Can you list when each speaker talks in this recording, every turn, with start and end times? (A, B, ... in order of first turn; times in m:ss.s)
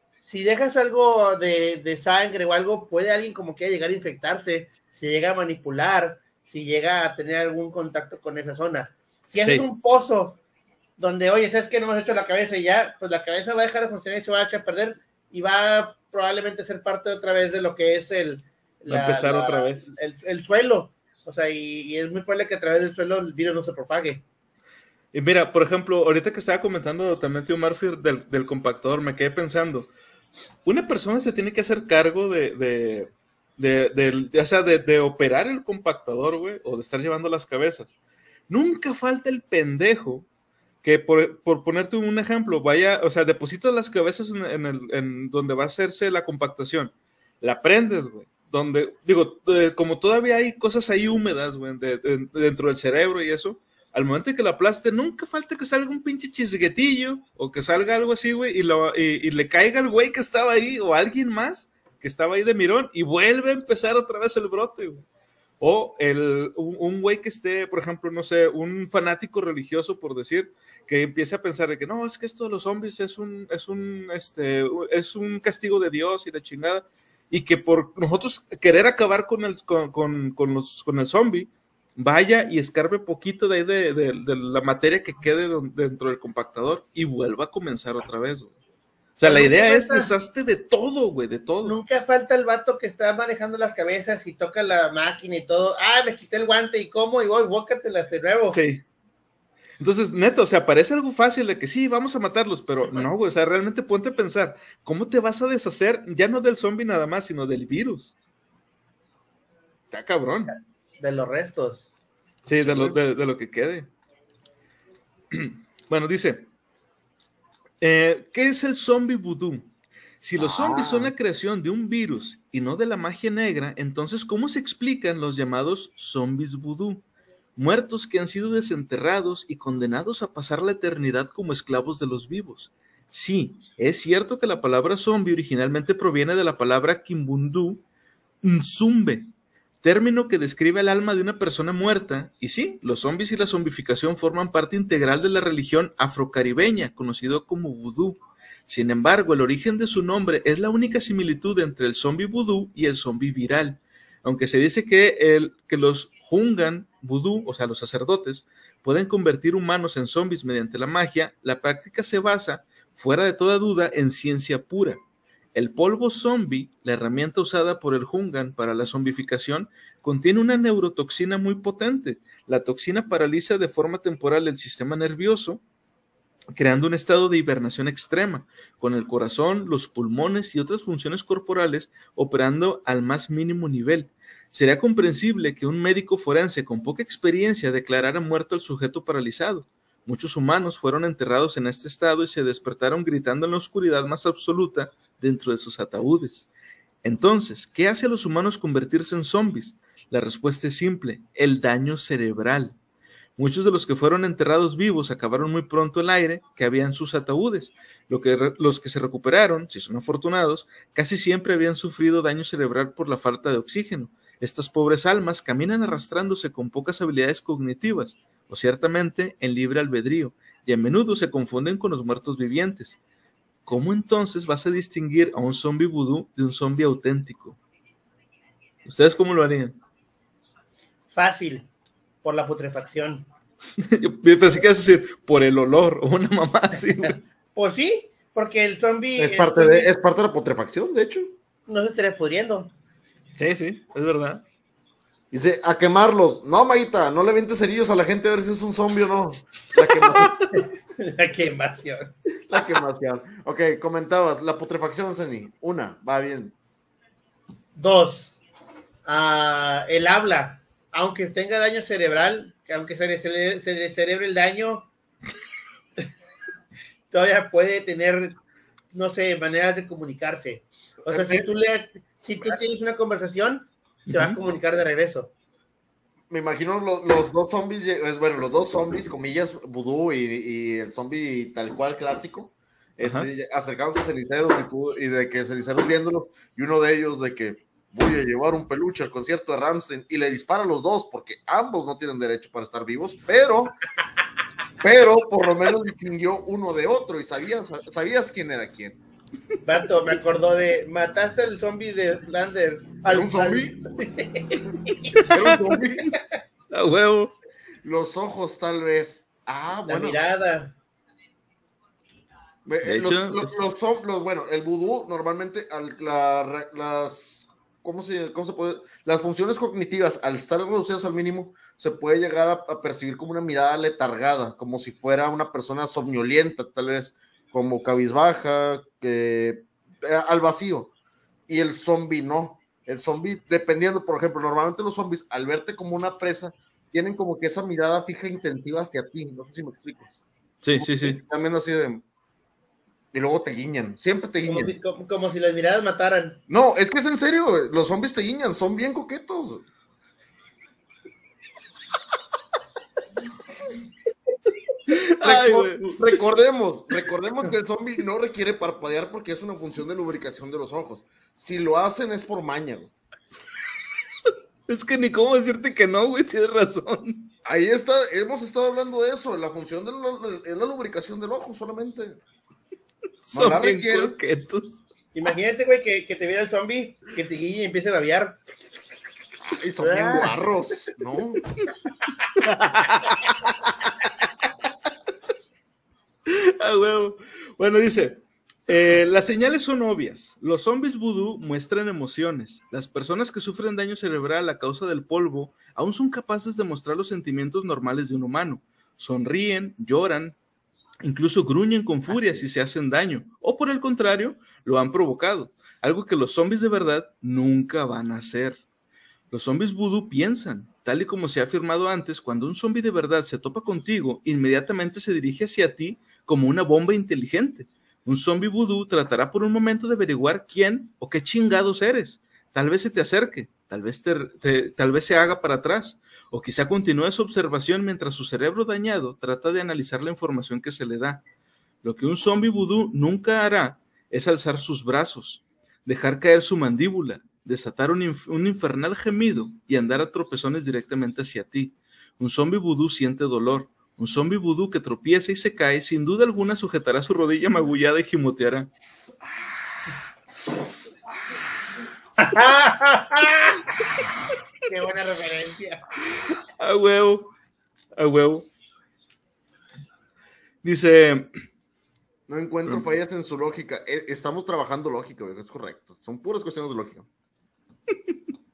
0:00.2-0:10.4 A
0:11.0-0:24.2 A
0:18.9-0:19.8 B
0:25.1-0:29.9 B
0:30.6-0:38.0 B
0:38.5-0:40.3 B
0:40.8-1:05.0 B
1:05.6-1:28.5 B
1:29.2-1:31.8 B
1:29.2-1:30.1 A
1:31.6-1:38.6 A
1:38.5-1:38.8 B
1:39.8-1:48.1 B
1:49.9-1:50.5 B
1:50.5-1:51.9 A
1:52.5-1:53.9 B
1:52.6-1:53.0 A
1:55.3-1:56.5 B
1:57.8-1:59.7 B
2:00.2-2:07.0 B
2:00.4-2:01.1 C
2:07.6-2:17.8 B
2:18.4-2:19.3 B
2:19.8-2:45.0 B
2:45.6-2:55.6 B
2:56.5-3:16.5 B
3:17.0-3:22.8 B
3:23.4-3:43.0 B
3:43.7-3:47.6 B
3:48.8-3:49.8 B
3:51.1-3:51.7 A
3:52.2-3:53.3 A
3:53.8-3:57.2 B
3:57.6-3:59.9 A
3:59.2-4:01.3 C
4:01.7-4:02.7 A
4:03.4-4:04.4 B
4:05.3-4:10.4 C
4:09.9-4:10.5 B
4:10.5-4:12.1 A
4:12.5-4:16.6 C
4:17.8-4:18.4 A
4:19.1-4:24.9 A
4:27.1-4:28.4 A
4:28.9-4:35.3 A
4:31.1-4:31.5 C
4:34.1-4:34.4 B
4:36.3-4:53.8 C
4:43.0-4:43.3 B
4:54.8-4:59.0 C
4:59.7-5:05.3 A
5:03.1-5:03.8 C
5:05.3-5:06.1 C
5:06.1-5:06.4 A
5:06.7-5:07.3 B
5:07.8-5:10.2 C
5:09.9-5:10.8 A
5:12.7-5:30.9 C
5:12.8-5:13.6 B
5:31.5-5:40.1 C
5:40.6-5:41.2 B
5:40.8-5:42.0 C
5:43.1-5:44.8 C
5:44.4-5:46.4 A
5:46.5-5:49.6 C
5:54.9-5:56.2 B
5:55.2-6:02.9 C
6:04.7-6:07.3 B
6:07.4-6:12.2 C
6:13.2-6:14.8 B
6:13.3-6:14.2 C
6:15.1-6:18.4 A
6:19.5-6:21.5 C
6:19.8-6:20.4 A
6:22.4-6:23.2 B
6:26.3-6:40.4 B
6:41.0-6:48.6 B
6:42.1-6:42.4 C
6:49.3-7:11.2 B
7:11.8-7:28.7 B
7:32.2-7:33.6 A
7:34.6-7:35.8 A
7:36.6-7:37.3 B
7:38.0-7:38.5 B
7:40.6-7:41.3 B
7:42.3-7:47.1 C